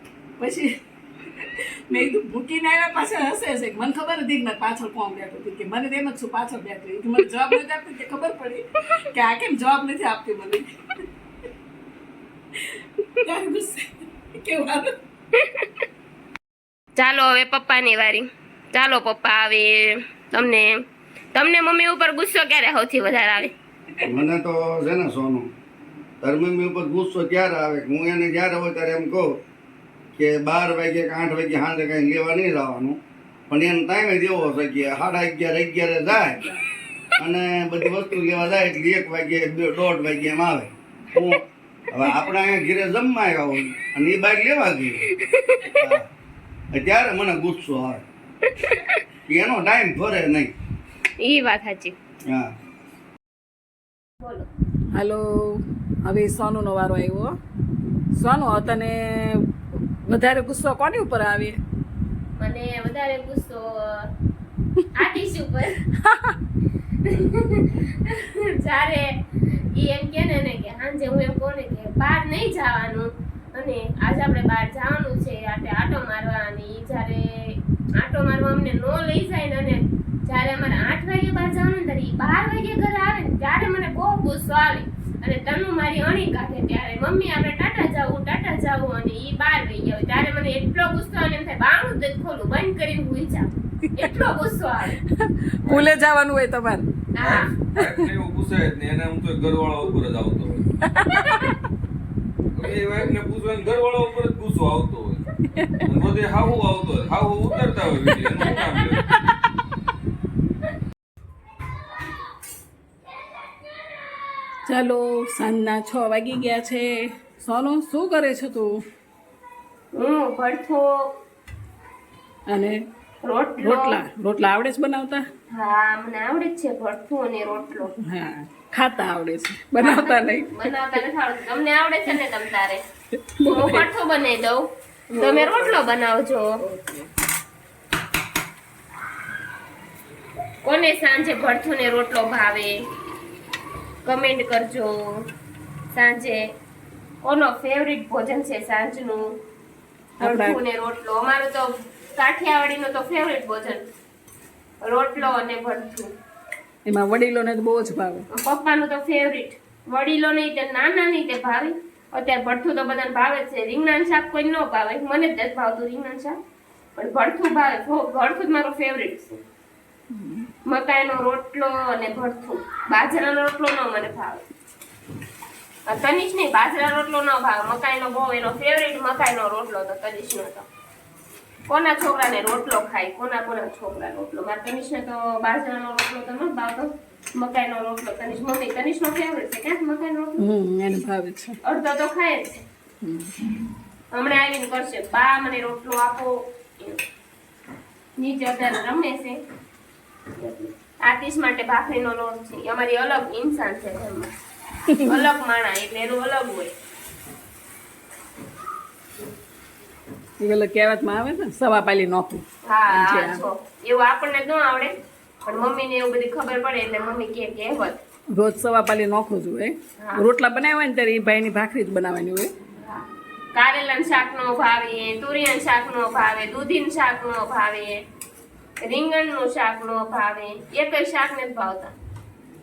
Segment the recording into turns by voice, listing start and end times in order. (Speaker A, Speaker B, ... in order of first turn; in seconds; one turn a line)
Speaker A: 0.4-10.7
Speaker A: 13.2-14.9
Speaker B: 15.4-15.8
Speaker B: 17.0-20.8
Speaker B: 21.3-23.5
Speaker C: 24.0-25.5
Speaker C: 26.2-29.4
Speaker C: 30.1-36.4
Speaker A: 36.3-36.6
Speaker C: 37.2-45.0
Speaker B: 45.1-45.8
Speaker C: 45.8-46.1
Speaker C: 46.7-48.0
Speaker B: 48.4-49.0
Speaker C: 49.3-50.5
Speaker B: 51.2-52.0
Speaker C: 52.2-52.5
Speaker B: 54.2-54.5
Speaker A: 54.9-57.3
Speaker A: 58.1-59.5
Speaker A: 60.1-61.6
Speaker B: 62.4-64.1
Speaker B: 64.9-65.9
Speaker A: 66.0-66.3
Speaker B: 67.0-95.0
Speaker A: 95.1-96.9
Speaker D: 95.6-96.0
Speaker B: 97.1-97.5
Speaker D: 97.2-100.7
Speaker A: 97.8-98.0
Speaker A: 100.8-101.5
Speaker D: 102.5-109.1
Speaker A: 114.7-118.8
Speaker B: 119.9-121.2
Speaker A: 122.5-122.8
Speaker B: 123.2-124.0
Speaker A: 123.6-125.2
Speaker B: 125.5-127.9
Speaker A: 128.0-130.5
Speaker B: 129.8-132.8
Speaker A: 133.1-133.9
Speaker B: 133.4-136.6
Speaker A: 135.1-135.8
Speaker A: 136.6-137.1
Speaker B: 140.6-142.8
Speaker B: 144.1-145.2
Speaker B: 145.9-146.5
Speaker B: 147.2-149.3
Speaker A: 150.2-150.6
Speaker B: 150.2-153.8
Speaker B: 154.8-156.1
Speaker A: 156.8-158.3
Speaker B: 158.3-166.4
Speaker B: 166.9-169.4
Speaker A: 170.1-170.5
Speaker B: 170.7-174.4
Speaker B: 175.9-180.7
Speaker B: 181.7-190.4
Speaker A: 190.4-191.6
Speaker B: 191.6-192.7
Speaker A: 193.0-193.4
Speaker B: 194.1-197.0
Speaker B: 198.2-199.4
Speaker B: 200.4-204.3
Speaker A: 204.9-205.2
Speaker B: 205.0-206.7
Speaker A: 210.4-213.4
Speaker B: 212.7-218.0
Speaker A: 218.3-222.5
Speaker B: 220.0-220.2
Speaker B: 222.7-228.0
Speaker B: 228.8-231.9